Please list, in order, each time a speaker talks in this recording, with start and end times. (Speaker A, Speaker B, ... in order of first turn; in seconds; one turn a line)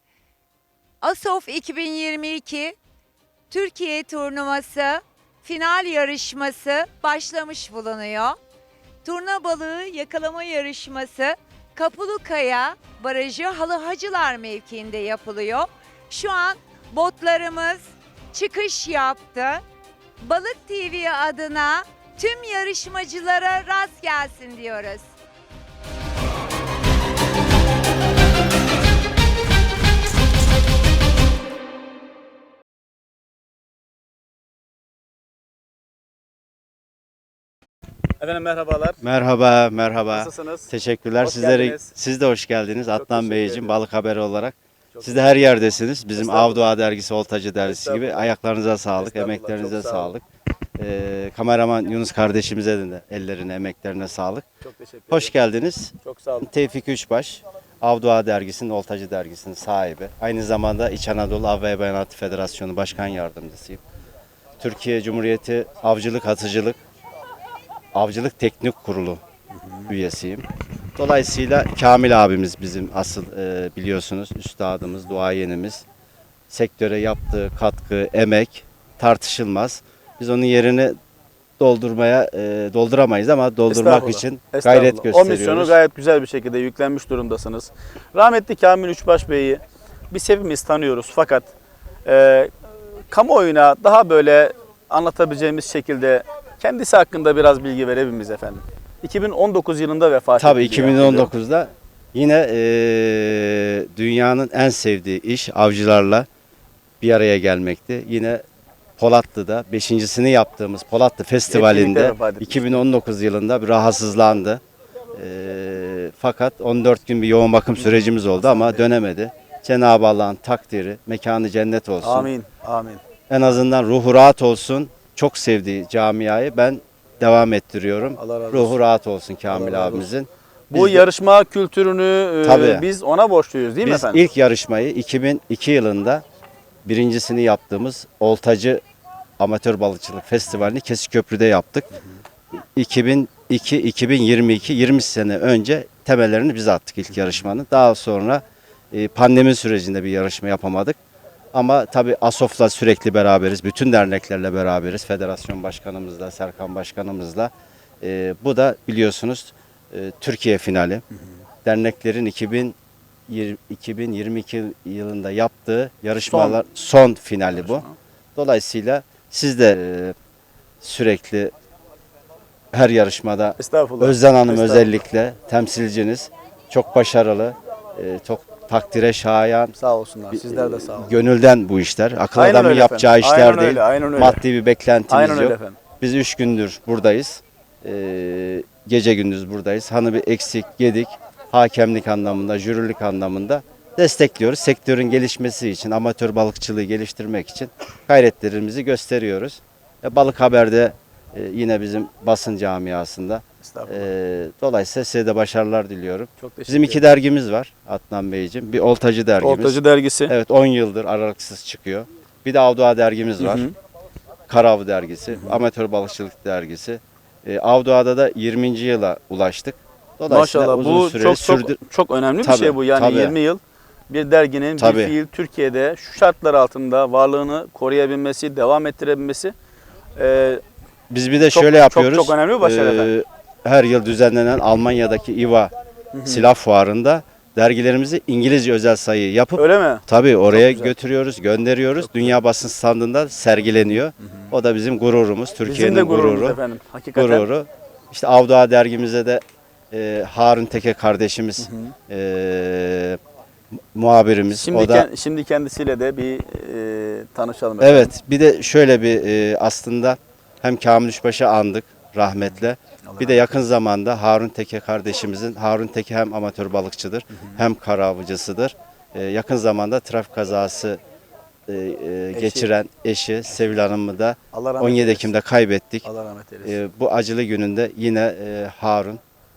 Speaker A: 1.0-2.8
Speaker A: 3.5-8.4
Speaker A: 9.0-19.6
Speaker A: 20.2-25.1
Speaker B: 38.2-39.0
Speaker C: 39.0-50.2
Speaker B: 40.1-41.9
Speaker B: 42.9-43.8
Speaker B: 44.9-45.3
Speaker B: 46.1-46.7
Speaker B: 47.6-48.3
Speaker B: 48.9-50.1
Speaker C: 50.8-54.4
Speaker B: 54.6-55.4
Speaker C: 55.1-63.8
Speaker B: 56.0-56.5
Speaker C: 64.6-66.8
Speaker C: 67.9-69.2
Speaker C: 69.9-75.8
Speaker C: 76.5-81.0
Speaker C: 81.6-85.8
Speaker B: 83.7-91.5
Speaker B: 92.0-92.5
Speaker B: 93.1-101.3
Speaker C: 100.4-106.3
Speaker C: 107.0-108.4
Speaker C: 109.0-114.6
Speaker B: 111.5-112.8
Speaker C: 115.1-122.3
Speaker B: 117.8-118.9
Speaker B: 122.0-123.0
Speaker C: 123.3-131.1
Speaker B: 128.2-128.7
Speaker B: 129.5-130.1
Speaker B: 130.7-134.2
Speaker C: 132.4-132.9
Speaker C: 133.8-136.2
Speaker C: 136.8-138.8
Speaker C: 139.4-141.9
Speaker C: 142.8-151.0
Speaker C: 151.5-161.0
Speaker C: 161.6-162.8
Speaker C: 163.3-170.2
Speaker B: 166.2-166.6
Speaker B: 167.5-167.9
Speaker C: 170.8-171.5
Speaker C: 172.7-179.8
Speaker B: 173.6-175.0
Speaker B: 179.8-181.2
Speaker C: 180.3-213.7
Speaker B: 182.3-184.4
Speaker B: 185.1-185.8
Speaker B: 203.6-204.1
Speaker B: 206.4-207.0
Speaker B: 209.4-210.3
Speaker B: 213.4-213.7
Speaker C: 214.5-221.8
Speaker B: 215.3-215.6
Speaker B: 220.3-229.5
Speaker C: 222.4-223.3
Speaker C: 224.8-225.1
Speaker B: 230.2-230.6
Speaker C: 231.1-235.7
Speaker B: 231.4-233.1
Speaker B: 236.1-236.4
Speaker C: 236.2-246.6
Speaker B: 239.6-240.9
Speaker B: 242.0-242.4
Speaker B: 245.6-247.5
Speaker C: 247.1-253.2
Speaker B: 251.6-251.9
Speaker C: 253.9-255.1
Speaker B: 254.6-258.1
Speaker C: 257.8-271.0
Speaker B: 262.4-263.4
Speaker C: 271.7-276.1
Speaker B: 272.3-272.7
Speaker B: 274.5-275.3
Speaker B: 276.1-276.8
Speaker C: 276.6-279.2